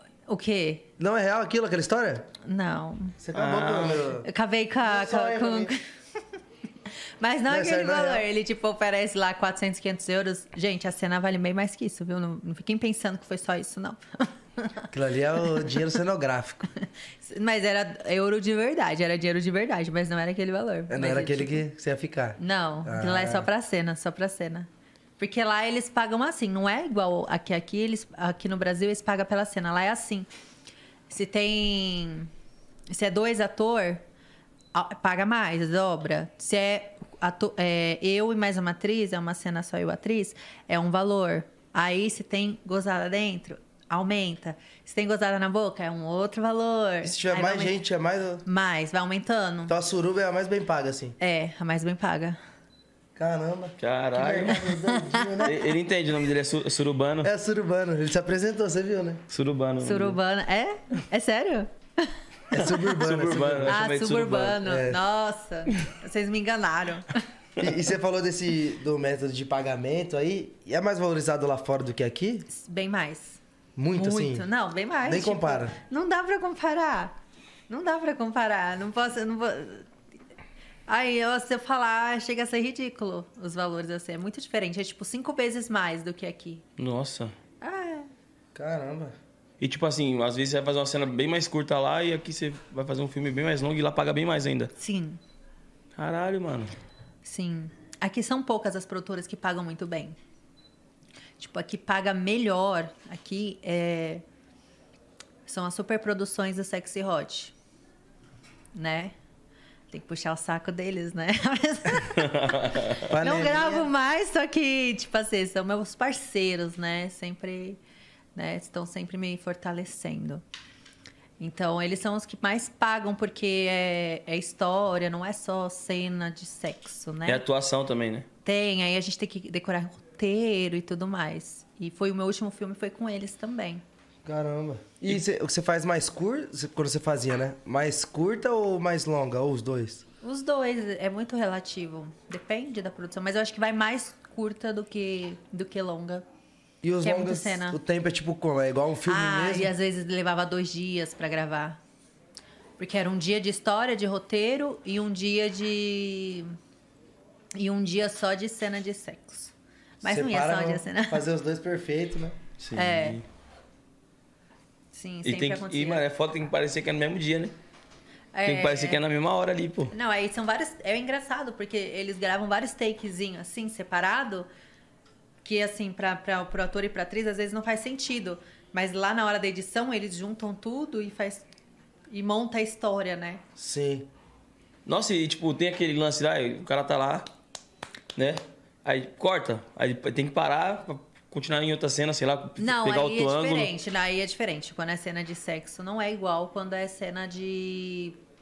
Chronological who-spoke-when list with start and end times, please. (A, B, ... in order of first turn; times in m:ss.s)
0:00.2-0:00.9 A
0:01.0-0:02.3 B
0:02.4-0:03.2 A
0:03.2-0:04.3 B
0:03.3-0:04.1 C
0:04.2-0:05.8 A
0:04.8-0:05.7 B
0:07.2-0:14.9 A
0:07.5-0:08.2 B
0:14.9-0:16.7 B
0:15.4-0:15.8 A
0:16.8-0:21.6 A
0:20.9-0:23.5 B
0:22.4-0:30.3 A
0:31.1-0:32.3 A
0:32.9-0:34.0 A
0:34.7-0:47.8 A
0:47.0-0:48.4 B
0:48.4-0:49.7 A
0:49.7-0:51.2 B
0:51.2-0:52.4 A
0:53.2-0:55.6 B
0:53.8-0:54.7 C
0:54.6-0:55.5 A
0:55.4-0:57.3 C
0:57.2-0:59.2 B
0:59.3-1:00.2 C
0:59.8-1:02.2 A
1:02.5-1:03.8 B
1:02.5-1:04.6 C
1:02.7-1:03.1 A
1:03.6-1:07.2 A
1:04.6-1:05.0 B
1:07.6-1:12.5 B
1:12.5-1:13.4 A
1:13.8-1:14.5 B
1:13.9-1:17.2 A
1:15.0-1:15.8 B
1:17.7-1:19.9 A
1:20.9-1:26.6 A
1:26.8-1:27.3 C
1:27.6-1:28.1 A
1:28.5-1:29.2 B
1:29.6-1:34.7 C
1:34.8-1:35.2 A
1:36.0-1:36.7 C
1:37.2-1:40.2 A
1:41.4-1:44.2 A
1:45.4-1:47.5 A
1:48.7-1:49.1 A
1:49.9-1:52.4 A
1:52.1-1:53.0 C
1:53.0-1:53.9 B
1:53.2-1:57.8 A
1:58.3-2:00.4 A
2:01.4-2:07.4 A
2:07.2-2:08.2 C
2:08.4-2:13.8 A
2:14.2-2:20.0 B
2:20.2-2:26.2 A
2:26.8-2:29.7 B
2:27.0-2:27.8 A
2:29.0-2:31.8 A
2:32.8-2:36.5 A
2:37.6-2:41.2 A
2:40.0-2:42.4 B
2:42.6-2:43.2 C
2:42.7-2:43.2 A
2:44.9-2:46.0 A
2:45.2-2:47.5 C
2:48.3-2:49.0 A
2:48.4-2:49.9 C
2:49.9-2:54.5 A
2:55.4-3:01.4 A
3:02.1-3:03.4 A
3:03.6-3:04.1 B
3:04.8-3:07.3 C
3:08.2-3:13.7 C
3:12.6-3:18.2 A